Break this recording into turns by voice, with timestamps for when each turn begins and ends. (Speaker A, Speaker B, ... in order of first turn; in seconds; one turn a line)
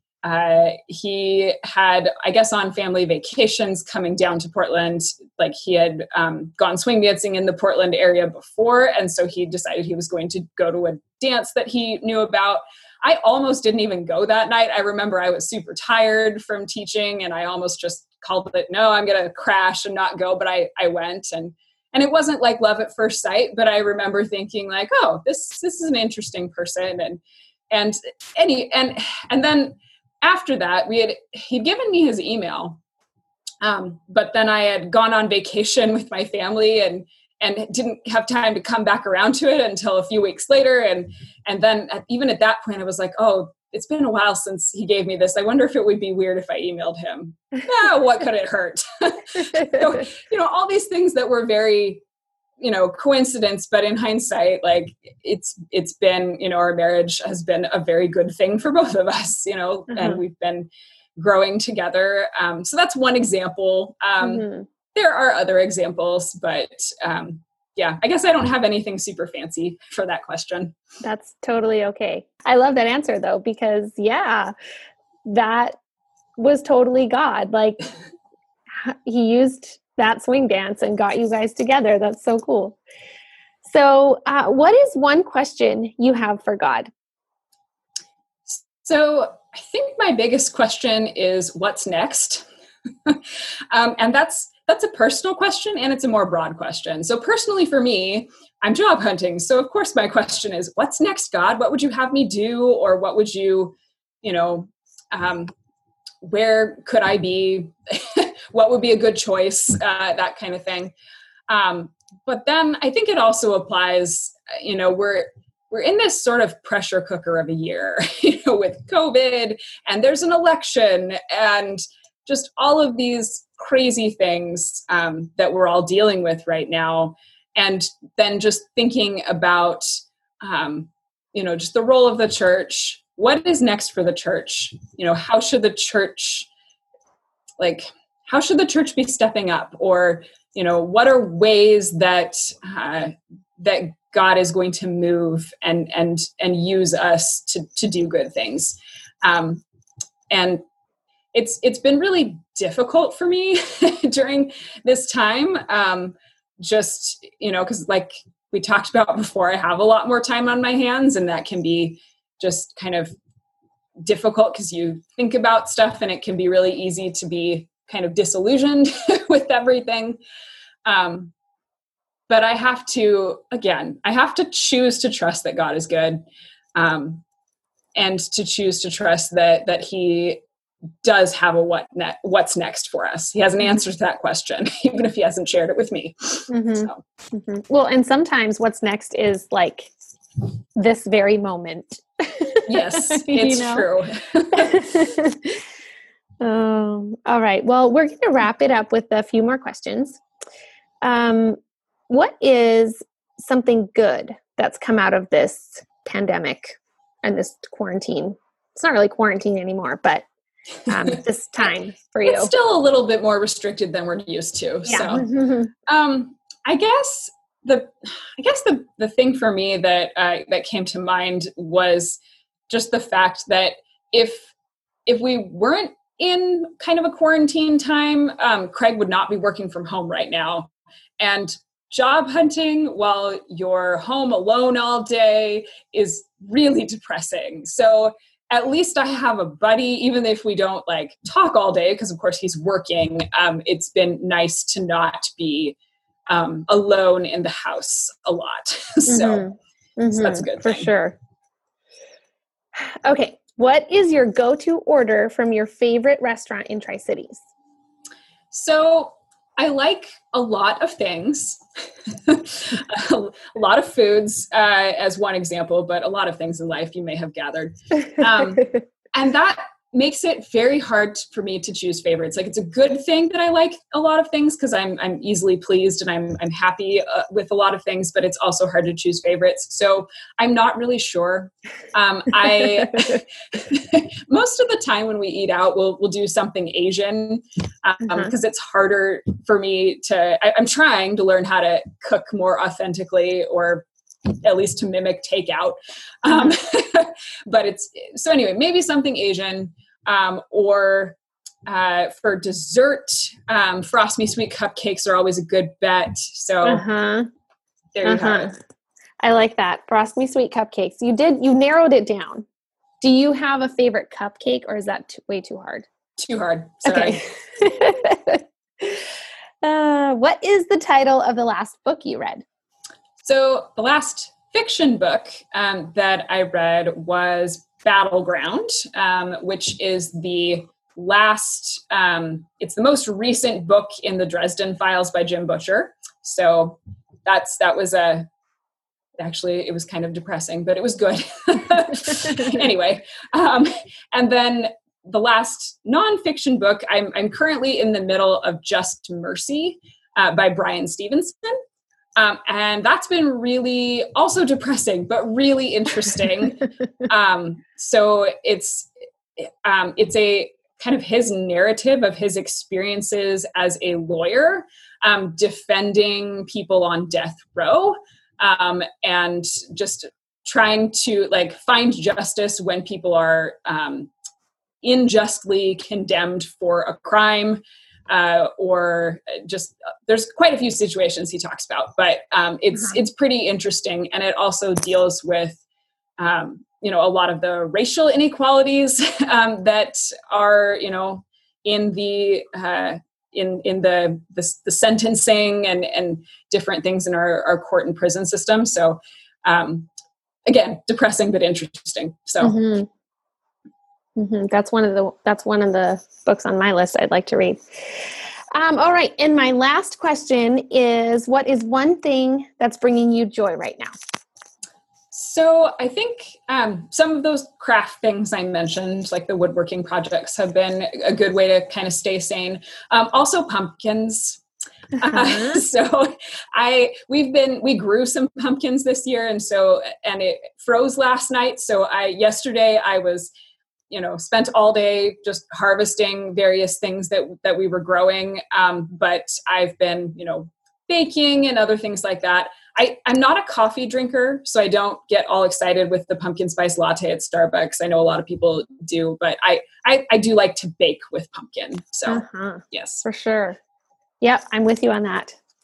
Speaker A: 0.2-32.8
Speaker A: 33.6-52.0
Speaker A: 52.6-70.7
Speaker B: 59.9-60.2
Speaker B: 64.2-64.7
Speaker B: 71.0-74.5
Speaker B: 75.2-75.7
Speaker B: 76.4-77.8
Speaker B: 78.8-82.8
Speaker B: 83.6-86.9
Speaker A: 88.5-92.5
Speaker A: 93.0-105.5
Speaker A: 106.2-110.9
Speaker A: 111.5-129.8
Speaker A: 130.4-136.5
Speaker A: 137.6-149.6
Speaker A: 150.3-150.6
Speaker A: 151.3-163.1
Speaker A: 164.0-170.2
Speaker A: 170.8-171.3
Speaker A: 172.3-176.2
Speaker A: 176.7-177.2
Speaker A: 177.9-180.4
Speaker A: 181.0-187.0
Speaker B: 186.5-189.9
Speaker B: 190.8-193.8
Speaker A: 192.7-194.9
Speaker B: 194.5-195.6
Speaker B: 196.4-200.2
Speaker B: 201.0-210.2
Speaker B: 210.9-212.5
Speaker A: 212.2-215.3
Speaker B: 214.9-215.7
Speaker A: 215.8-224.5
Speaker A: 225.1-245.8
Speaker A: 246.3-249.5
Speaker B: 249.1-251.2
Speaker A: 250.1-250.9
Speaker B: 252.7-257.4
Speaker A: 258.5-306.8
Speaker B: 306.6-307.3
Speaker A: 307.9-308.5
Speaker B: 308.0-308.6
Speaker B: 309.2-312.4
Speaker B: 313.0-315.9
Speaker A: 316.2-317.2
Speaker B: 316.9-319.0
Speaker B: 319.6-322.4
Speaker A: 323.2-338.3
Speaker A: 339.2-351.6
Speaker A: 352.1-374.1
Speaker A: 374.8-385.6
Speaker A: 386.2-399.9
Speaker A: 400.4-402.5
Speaker B: 402.4-402.9
Speaker B: 404.1-413.9
Speaker A: 415.1-424.4
Speaker A: 424.9-433.3
Speaker B: 425.1-425.6
Speaker A: 433.9-453.0
Speaker B: 452.1-453.6
Speaker B: 454.2-455.4